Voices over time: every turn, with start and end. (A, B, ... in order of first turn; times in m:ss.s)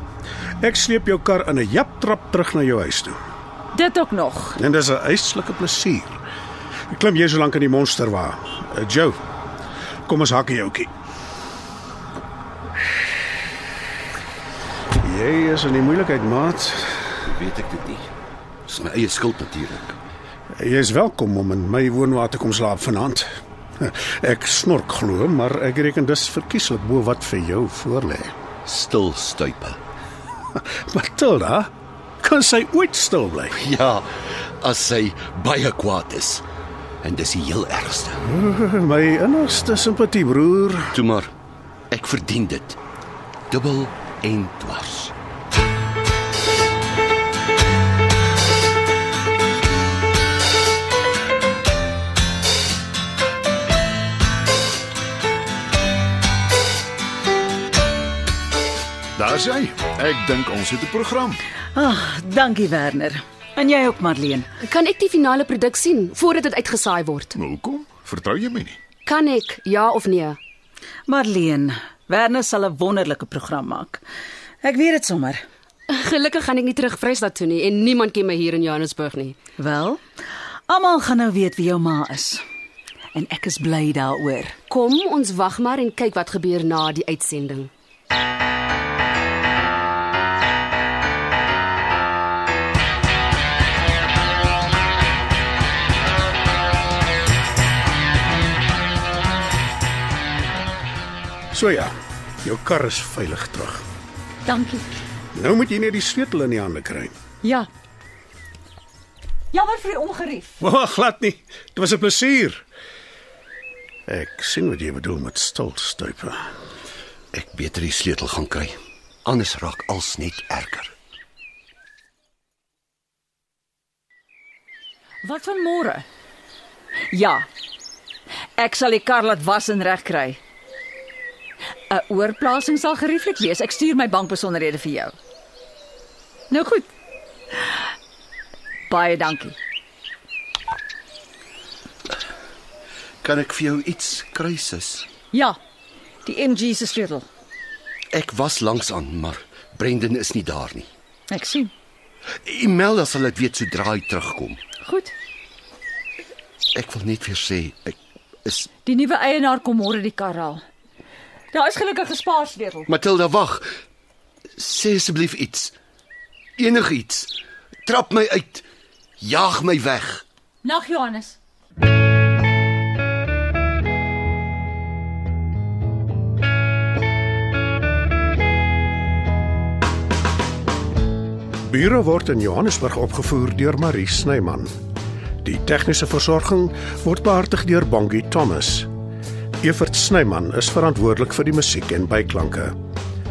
0:00.6-0:03.2 A
0:03.7-0:04.6 B
0:04.6-0:06.2 A
0:06.9-0:09.2 A
0:10.0-0:10.9 A
0:15.0-0:17.2 A
0:17.2-0:18.1 C
0:18.7-0:20.0 C
0:20.5-0:23.3 A
0:23.8-0:28.3 A
0:28.6-0:29.8 C
0:30.6-0:31.7 A
0:32.2-0:33.6 A
0:33.5-0:34.1 C
0:34.6-0:36.4 C
0:37.0-0:38.2 C
0:38.2-0:41.0 A
0:40.9-0:41.3 C
0:41.9-0:42.8 C
0:43.5-0:45.1 C
0:59.2-1:01.4 D
1:01.7-1:04.5 B
1:04.6-1:07.4 E
1:07.3-1:08.8 D
1:09.0-1:10.4 E
1:11.1-1:14.0 B
1:14.6-1:15.4 B
1:15.9-1:19.4 E
1:19.6-1:20.0 B
1:20.7-1:22.4 B
1:23.1-1:24.6 B
1:24.7-1:27.7 E
1:41.5-1:41.9 A
1:42.4-1:43.8 A
1:44.4-1:44.8 B
1:45.3-1:47.1 A
1:47.4-1:47.7 B
1:49.5-1:50.6 B
1:50.6-1:52.6 A
1:54.1-1:56.4 A
1:57.3-2:00.9 C
2:05.2-2:06.0 B
2:07.1-2:07.5 B
2:08.6-2:10.4 B
2:11.9-2:15.1 B
2:16.5-2:16.9 B
2:18.9-2:19.6 B
2:23.2-2:25.0 C
2:25.3-2:25.6 B
2:26.2-2:27.2 B
2:28.1-2:30.9 C
2:31.3-2:31.7 B
2:32.4-2:34.6 C
2:34.8-2:35.1 B
2:36.7-2:38.7 C
2:38.8-2:40.6 B
2:41.5-2:42.9 B
2:42.9-2:43.6 C
2:44.6-2:45.7 C
2:46.6-2:47.3 C
2:47.8-2:48.6 C
2:49.2-2:50.2 C
2:50.6-2:51.4 B
3:01.6-3:04.7 A
3:05.4-3:08.9 A
3:09.6-3:12.7 A